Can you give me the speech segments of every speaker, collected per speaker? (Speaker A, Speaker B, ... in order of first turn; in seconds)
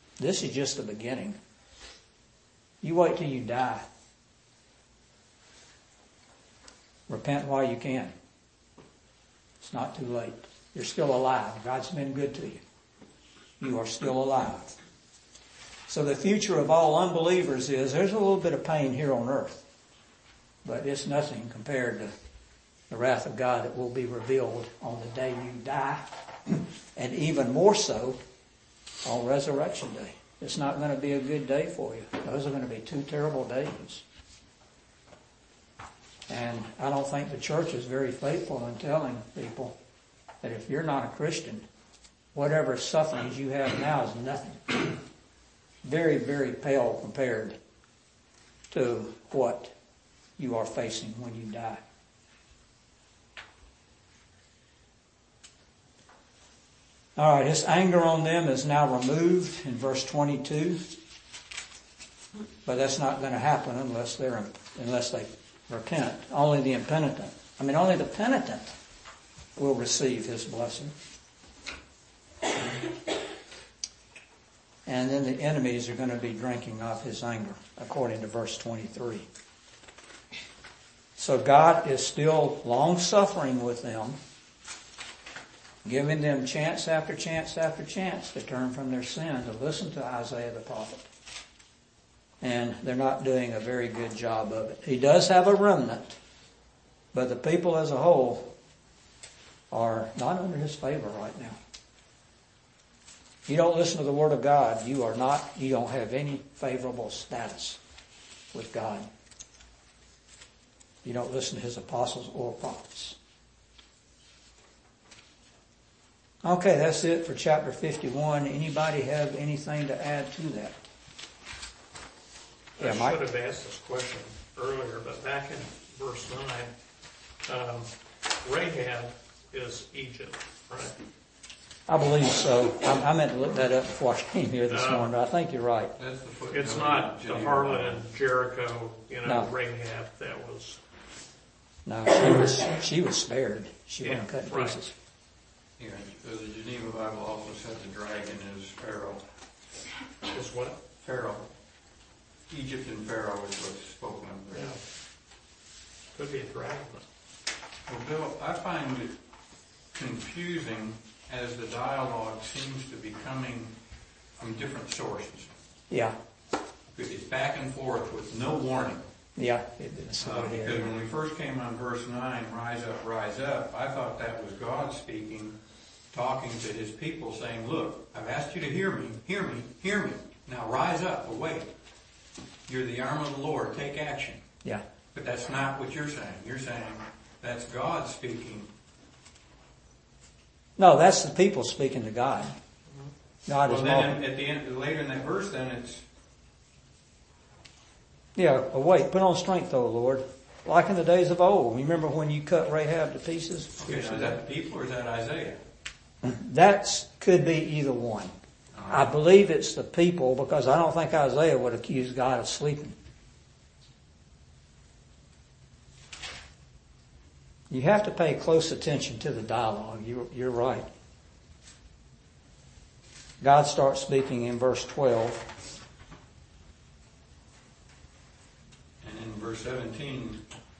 Speaker A: 0.2-1.4, 2.8-3.9, 7.1-8.1, 9.6-12.6, 13.6-14.7, 15.9-19.6, 20.6-22.1, 22.9-28.2, 29.0-34.0, 36.3-39.8, 40.4-41.6, 42.3-45.0, 45.8-47.6, 48.7-49.7, 50.4-51.8, 57.1-60.8, 62.6-68.7, 69.5-70.9, 74.8-79.2, 81.2-84.2, 85.8-91.1, 92.4-96.2, 97.1-98.5, 99.7-101.6, 103.5-107.8, 108.5-109.0, 111.0-113.2, 116.4-120.8, 122.8-123.2, 131.9-135.9, 141.8-144.9, 165.9-166.1, 169.3-170.9, 190.8-192.5, 193.4-194.2, 198.3-204.4, 206.2-208.3, 208.9-212.9, 217.7-220.9, 223.4-225.4
Speaker B: 122.8-126.7, 127.4-130.9, 134.7-135.1, 136.5-140.8, 144.0-144.8, 150.3-150.8, 154.5-154.8, 156.1-157.0
Speaker C: 136.0-138.0, 145.8-149.2, 151.0-151.4, 152.5-154.7, 157.9-159.2, 159.9-163.8, 164.4-165.5, 166.9-169.0, 170.2-175.5, 176.1-181.7, 182.7-184.4, 185.1-188.7, 193.7-196.0, 203.8-205.6, 208.7-209.1, 229.0-230.4